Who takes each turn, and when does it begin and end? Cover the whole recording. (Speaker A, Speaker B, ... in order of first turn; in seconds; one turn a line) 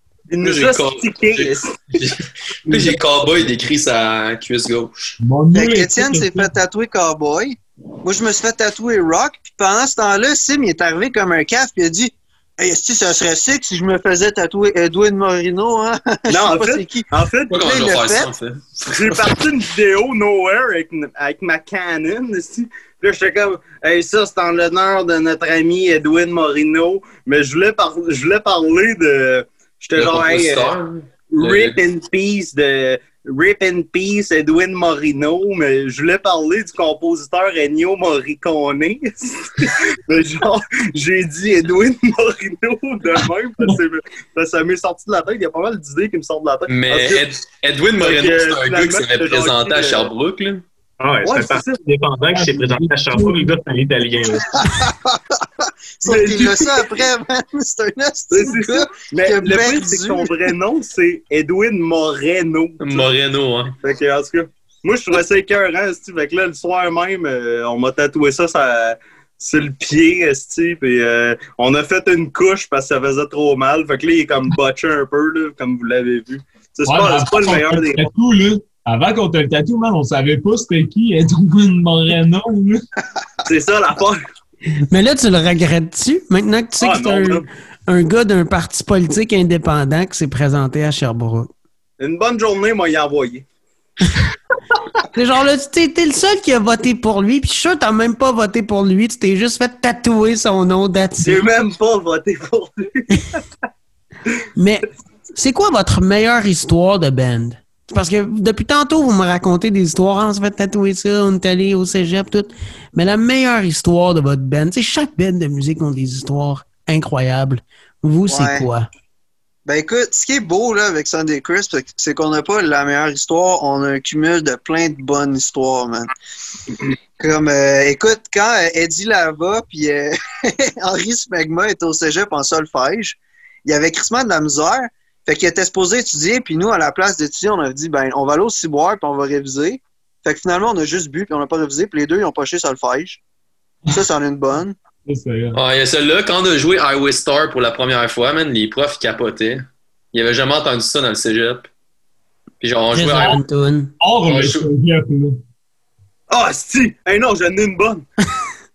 Speaker A: 0.3-1.9
Speaker B: 0.4-5.2
Speaker C: 2.7-3.0
Speaker C: 5.2-6.5
Speaker D: 5.5-17.1
Speaker A: 16.3-17.8
Speaker B: 17.5-19.4
Speaker D: 17.6-18.3
Speaker A: 18.8-30.8
Speaker B: 30.0-31.8
Speaker A: 31.3-47.4
Speaker B: 46.7-50.6
Speaker A: 48.0-50.1
Speaker E: 51.0-54.7
Speaker A: 51.2-51.8
Speaker C: 52.3-53.5
Speaker D: 56.0-60.3
Speaker A: 56.0-56.9
Speaker A: 58.3-63.1
Speaker B: 62.8-63.8
Speaker A: 63.8-78.1
Speaker C: 76.8-82.8
Speaker A: 83.5-84.2
Speaker F: 84.9-91.5
Speaker A: 86.8-87.5
Speaker A: 92.0-93.5
Speaker F: 95.1-101.5
Speaker A: 101.2-103.4
Speaker F: 104.5-118.9
Speaker D: 118.3-118.7
Speaker D: 119.7-126.1
Speaker D: 127.2-143.2
Speaker D: 143.9-144.8
Speaker C: 145.1-145.6
Speaker B: 145.5-151.7
Speaker B: 152.6-153.4
Speaker F: 152.9-153.9
Speaker C: 154.0-155.4
Speaker B: 154.3-154.7
Speaker A: 156.3-158.1